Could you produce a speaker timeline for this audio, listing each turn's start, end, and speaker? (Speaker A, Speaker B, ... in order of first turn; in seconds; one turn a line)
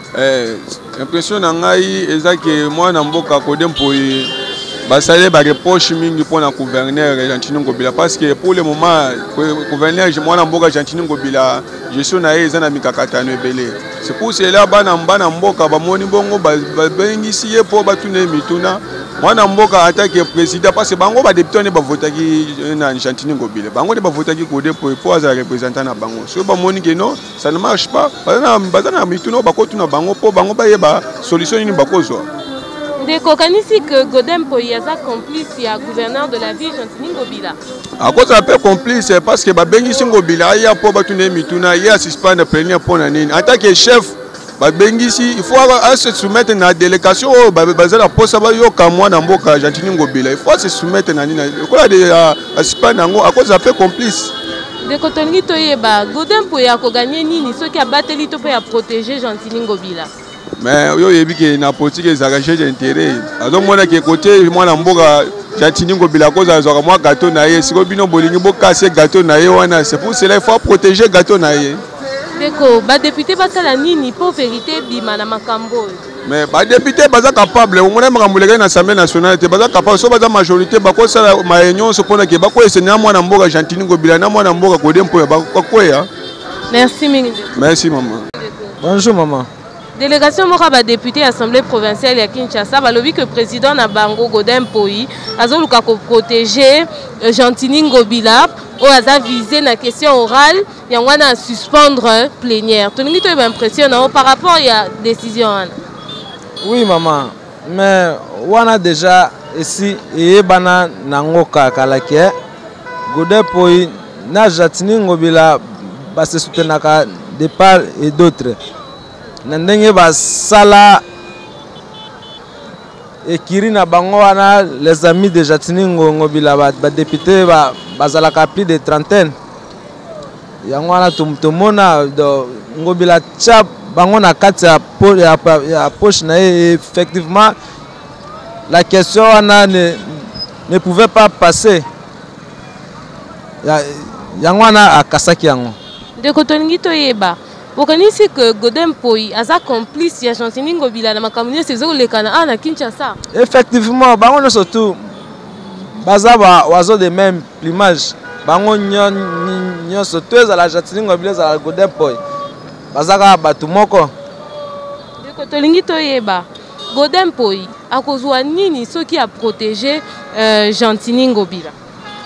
Speaker A: 0.1-4.3
Speaker A: 4.9-32.3
Speaker B: 33.0-37.6
Speaker A: 38.0-54.3
Speaker B: 54.9-60.1
Speaker A: 60.6-71.8
Speaker B: 72.4-76.0
Speaker A: 76.3-86.1
Speaker B: 86.7-87.6
Speaker A: 87.5-88.3
Speaker C: 88.8-89.5
Speaker B: 90.0-105.7
Speaker C: 106.6-112.3
Speaker C: 113.1-118.6
Speaker C: 119.5-121.0
Speaker C: 123.2-129.3
Speaker C: 130.7-137.6
Speaker C: 138.7-141.9
Speaker C: 143.6-145.8
Speaker B: 146.2-153.2
Speaker C: 153.3-162.2
Speaker C: 162.9-164.1
Speaker B: 165.2-171.8